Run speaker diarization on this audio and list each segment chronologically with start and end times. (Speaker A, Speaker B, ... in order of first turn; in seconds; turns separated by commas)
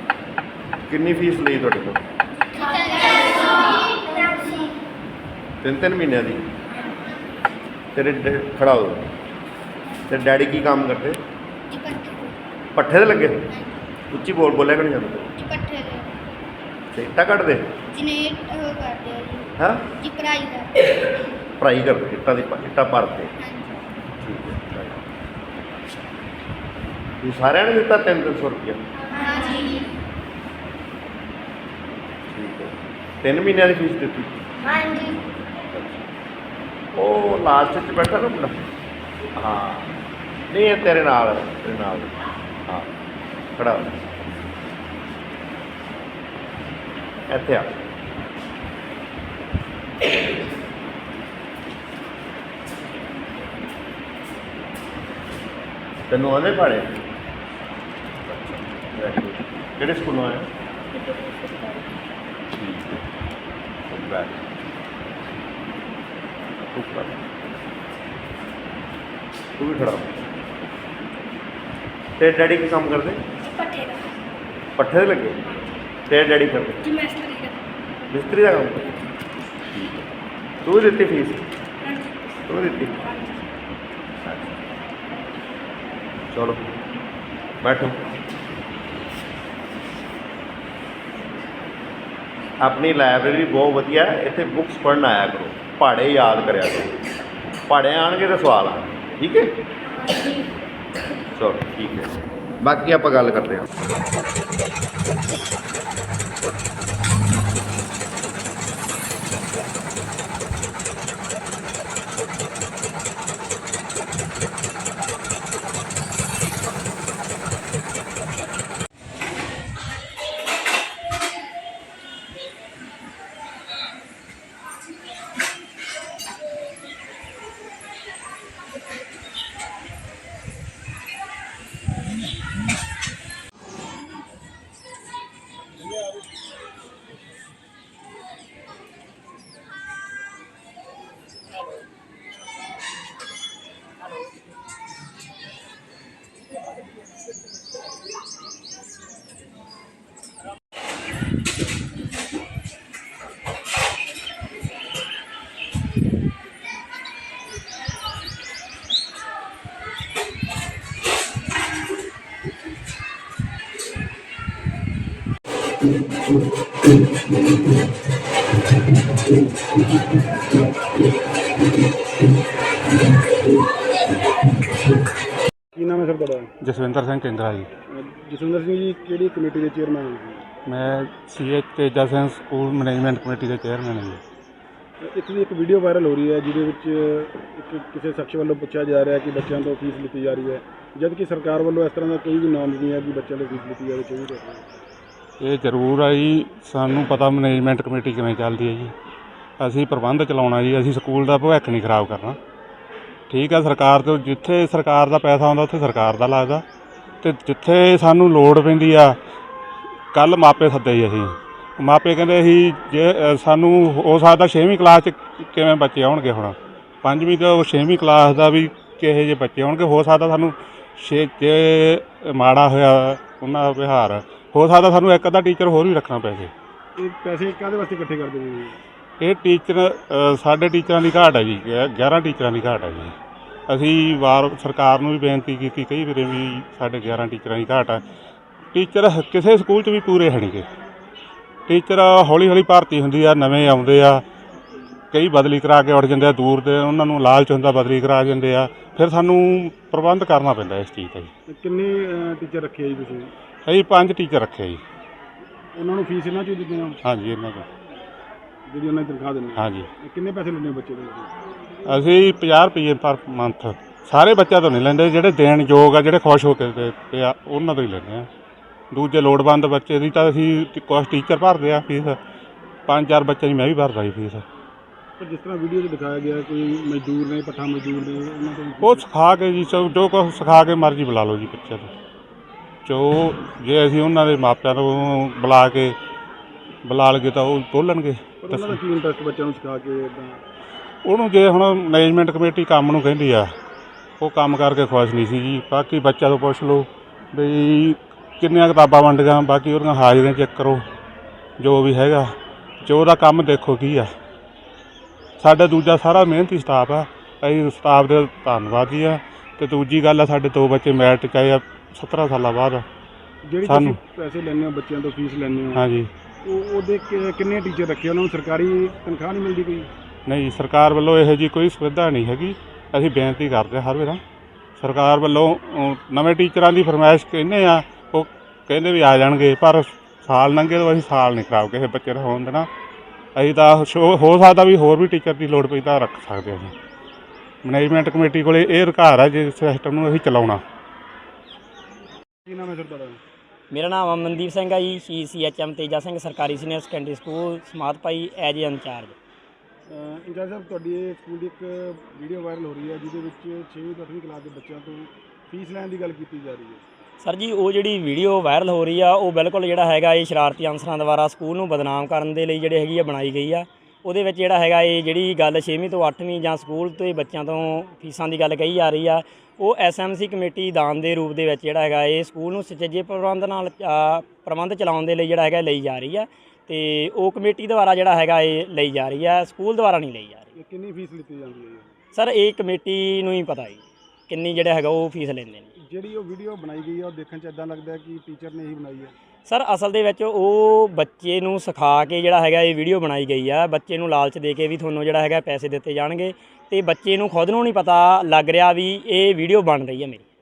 Speaker A: 0.9-2.0, Speaker B: 2.6-4.5, Speaker A: 5.6-6.4, Speaker A: 7.9-9.1, Speaker A: 10.1-11.2, Speaker B: 11.7-12.3, Speaker A: 12.7-13.4, Speaker B: 13.5-13.9, Speaker A: 14.1-15.3, Speaker B: 15.4-16.1, Speaker A: 16.9-17.8, Speaker B: 17.9-20.7, Speaker A: 19.6-19.9, Speaker A: 21.6-23.3, Speaker B: 23.4-23.9, Speaker A: 24.2-25.1, Speaker A: 27.2-28.8, Speaker B: 29.1-29.8, Speaker A: 32.3-36.0, Speaker B: 34.7-35.2, Speaker A: 36.9-38.7, Speaker A: 39.4-39.9, Speaker A: 40.5-42.1, Speaker A: 43.6-44.0, Speaker A: 47.3-47.7, Speaker A: 56.1-57.0, Speaker A: 58.3-60.5, Speaker A: 62.5-63.0, Speaker A: 63.9-64.4, Speaker A: 66.6-67.2, Speaker A: 69.6-70.1, Speaker A: 72.2-73.2, Speaker A: 74.8-75.4, Speaker A: 76.1-77.0, Speaker A: 78.1-79.0, Speaker A: 79.7-80.1, Speaker A: 80.6-81.5, Speaker A: 82.5-83.2, Speaker A: 84.2-84.6, Speaker A: 86.3-86.6, Speaker A: 87.6-88.1, Speaker A: 92.6-97.0, Speaker A: 97.7-99.5, Speaker A: 101.3-103.7, Speaker C: 175.7-176.5, Speaker D: 176.6-177.7, Speaker C: 177.9-180.4, Speaker D: 180.7-184.2, Speaker C: 185.0-194.8, Speaker D: 195.4-198.9, Speaker D: 199.6-202.4, Speaker D: 203.3-206.6, Speaker D: 207.2-209.2, Speaker D: 210.1-226.5, Speaker C: 226.9-228.8, Speaker D: 229.2-233.1, Speaker D: 233.7-238.0, Speaker D: 238.7-240.7, Speaker D: 241.7-244.2, Speaker D: 245.1-251.3, Speaker C: 251.5-253.3, Speaker D: 253.7-254.8, Speaker C: 255.7-257.0, Speaker D: 257.0-257.7, Speaker C: 258.7-261.3, Speaker D: 259.6-259.9, Speaker D: 261.9-268.3, Speaker D: 268.9-272.2, Speaker D: 272.9-274.4, Speaker C: 275.2-279.0, Speaker D: 278.8-281.9, Speaker D: 282.8-285.9, Speaker D: 286.9-288.8, Speaker C: 288.4-290.4, Speaker D: 291.0-293.5, Speaker D: 294.2-300.8, Speaker D: 301.6-304.1, Speaker D: 305.4-312.8, Speaker C: 313.4-315.9, Speaker D: 313.6-314.0, Speaker D: 315.7-316.1, Speaker C: 316.4-319.9, Speaker D: 320.2-324.2, Speaker D: 324.8-332.7, Speaker D: 333.4-336.7, Speaker D: 337.6-340.6, Speaker C: 342.4-343.2, Speaker E: 343.7-349.1, Speaker C: 349.9-356.8, Speaker E: 357.2-380.5, Speaker C: 380.6-381.9, Speaker E: 382.1-385.7, Speaker C: 385.8-389.1, Speaker E: 389.4-400.2